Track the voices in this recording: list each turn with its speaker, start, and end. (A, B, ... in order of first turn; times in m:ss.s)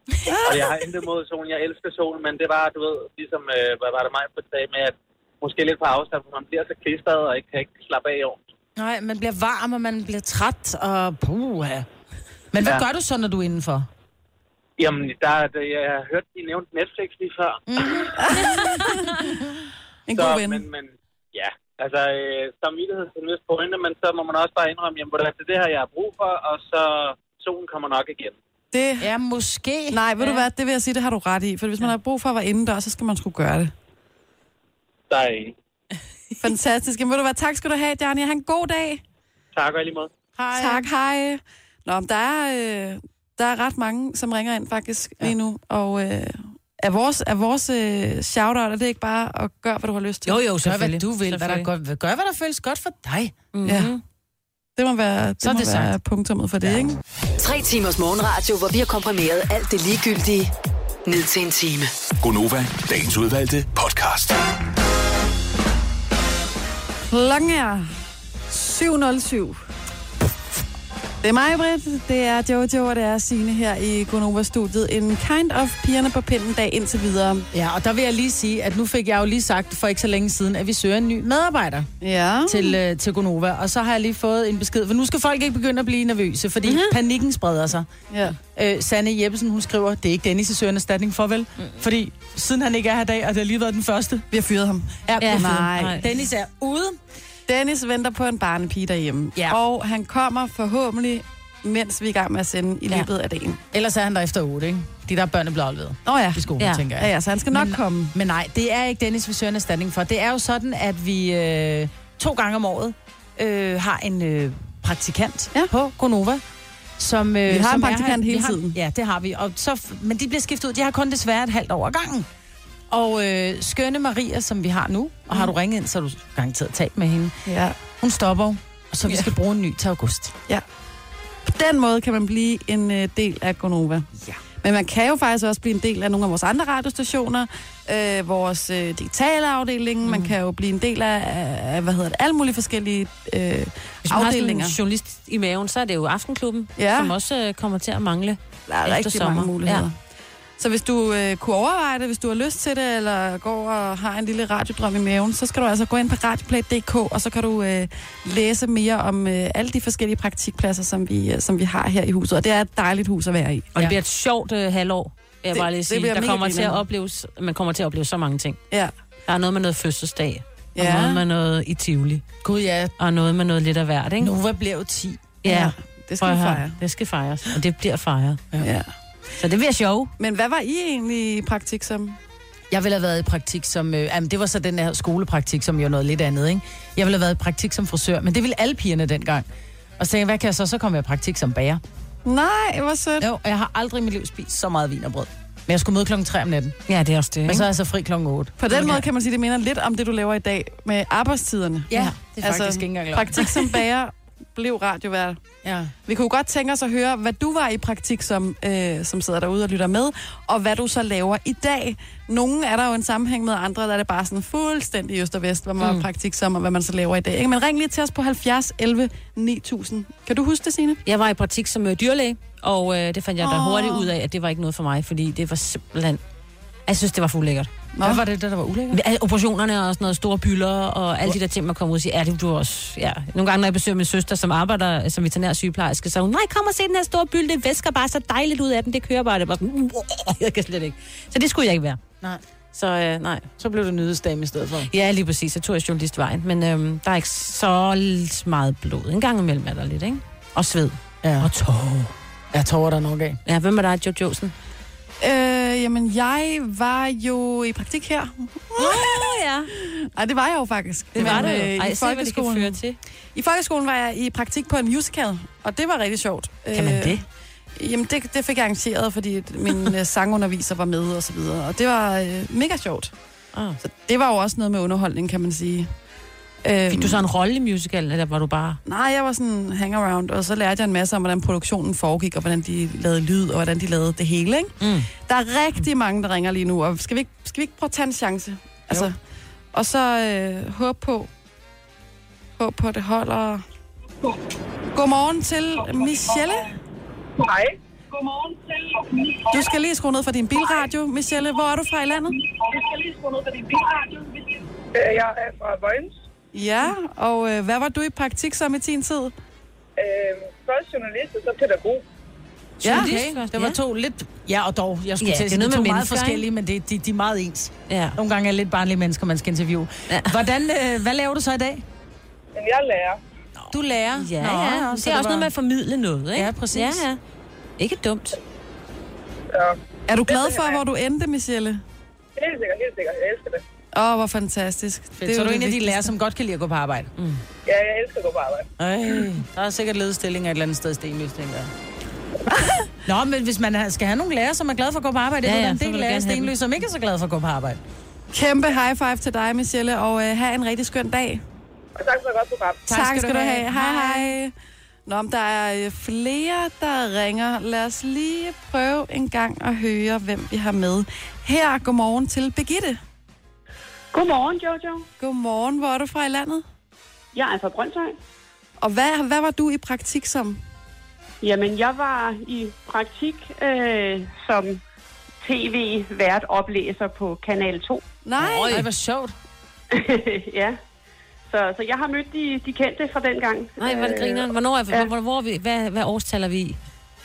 0:00.3-0:00.6 A
0:00.4-0:08.4 B
0:08.8-0:11.9 C
0:12.5-0:13.9 C
0:14.8-0:18.1 B
0:17.7-0:18.6 C
0:18.2-0:19.2 A
0:20.1-0:20.6 A
0:20.1-0:28.3 B
0:28.7-0:29.1 A
0:29.0-0:30.0 C
0:29.9-0:33.7 A
0:35.1-0:35.5 B
0:36.4-0:39.0 A
0:39.5-0:40.1 B
0:40.4-0:40.9 C
0:40.5-0:50.4 A
0:50.2-0:51.7 D
0:50.6-0:53.3 C
0:53.5-0:54.0 D
0:53.6-0:53.9 A
0:54.8-0:57.0 A
0:55.4-0:55.9 C
0:57.4-1:00.5 E
1:01.0-1:01.9 E
1:02.2-1:04.4 F
1:07.1-1:07.9 A
1:08.5-1:09.6 A
1:11.2-1:17.5 A
1:17.5-1:21.9 C
1:22.0-1:22.7 A
1:22.4-1:27.9 C
1:26.6-1:27.0 D
1:28.1-1:28.4 A
1:28.4-1:34.3 C
1:34.3-1:36.0 A
1:35.1-1:37.0 C
1:35.2-1:36.0 D
1:37.5-1:43.6 A
1:43.7-1:56.4 C
1:46.0-1:48.1 A
1:46.6-1:46.8 D
1:57.0-2:02.3 C
1:57.5-1:58.8 A
2:02.9-2:07.4 C
2:07.4-2:07.8 A
2:08.0-2:10.3 C
2:11.4-2:24.8 A
2:20.0-2:20.3 D
2:24.0-2:29.8 D
2:26.8-2:27.1 A
2:28.7-2:29.9 A
2:30.6-2:43.7 A
2:43.7-2:48.6 D
2:45.5-2:46.8 A
2:49.3-2:52.2 D
2:50.8-2:51.2 A
2:52.4-2:52.9 C
2:53.0-2:54.3 D
2:54.2-2:55.3 C
2:55.4-2:58.4 D
2:55.4-2:56.8 A
2:58.6-2:58.9 A
2:59.4-3:00.1 D
3:00.2-3:02.2 A
3:02.7-3:09.4 C
3:10.0-3:11.8 C
3:12.2-3:13.3 A
3:13.2-3:16.8 C
3:16.9-3:17.6 D
3:17.4-3:19.0 C
3:18.6-3:25.4 A
3:21.9-3:23.6 C
3:25.6-3:25.9 C
3:26.0-3:41.0 A
3:35.8-3:36.0 D
3:41.0-3:46.2 D
3:43.4-3:44.1 A
3:46.9-3:47.7 D
3:48.0-3:48.2 A
3:48.0-3:49.0 C
3:48.9-4:02.0 D
4:02.7-4:03.5 D
4:03.6-4:04.9 C
4:04.9-4:12.1 D
4:11.2-4:11.5 C
4:12.5-4:13.4 C
4:13.4-4:14.5 D
4:15.2-4:22.8 A
4:18.8-4:19.7 D
4:21.1-4:23.0 D
4:21.2-4:21.6 C
4:23.3-4:27.2 A
4:26.7-4:27.2 D
4:26.8-4:27.1 C
4:27.8-4:33.1 A
4:33.8-4:35.9 A
4:36.6-4:37.2 A
4:36.9-4:38.8 D
4:38.8-4:44.7 A
4:44.8-4:45.1 D
4:45.2-4:49.2 A
4:49.7-4:51.3 A
4:52.6-4:53.6 A
4:54.9-4:56.7 A
4:55.8-4:56.5 G
4:57.4-4:59.6 G
4:59.5-5:02.4 A
5:02.4-5:06.2 G
5:06.5-5:09.3 A
5:10.0-5:12.0 G
5:12.8-5:21.8 C
5:12.8-5:13.1 A
5:12.8-5:13.8 D
5:15.2-5:16.4 D
5:17.9-5:18.2 D
5:20.1-5:20.4 D
5:22.5-5:23.2 G
5:23.6-5:27.2 D
5:23.7-5:25.5 C
5:26.3-5:27.0 C
5:27.8-5:28.4 D
5:29.5-5:30.8 G
5:30.1-5:31.8 A
5:32.4-5:33.6 G
5:33.9-5:36.1 A
5:35.2-5:37.1 C
5:37.2-5:37.4 D
5:37.6-5:38.7 G
5:38.8-5:41.7 C
5:42.5-5:42.9 A
5:43.0-5:47.8 C
5:45.4-5:46.5 D
5:48.3-5:51.4 A
5:52.0-5:52.9 G
5:52.8-5:54.3 C
5:52.9-5:54.5 A
5:55.0-6:03.0 A
6:04.1-6:05.1 H
6:05.2-6:06.6 A
6:07.3-6:08.2 H
6:08.8-6:10.6 A
6:11.4-6:14.8 H
6:15.4-6:18.0 H
6:18.2-6:18.7 A
6:18.4-6:18.9 D
6:18.6-6:19.3 C
6:19.9-6:20.8 H
6:21.5-6:25.1 H
6:23.8-6:26.8 D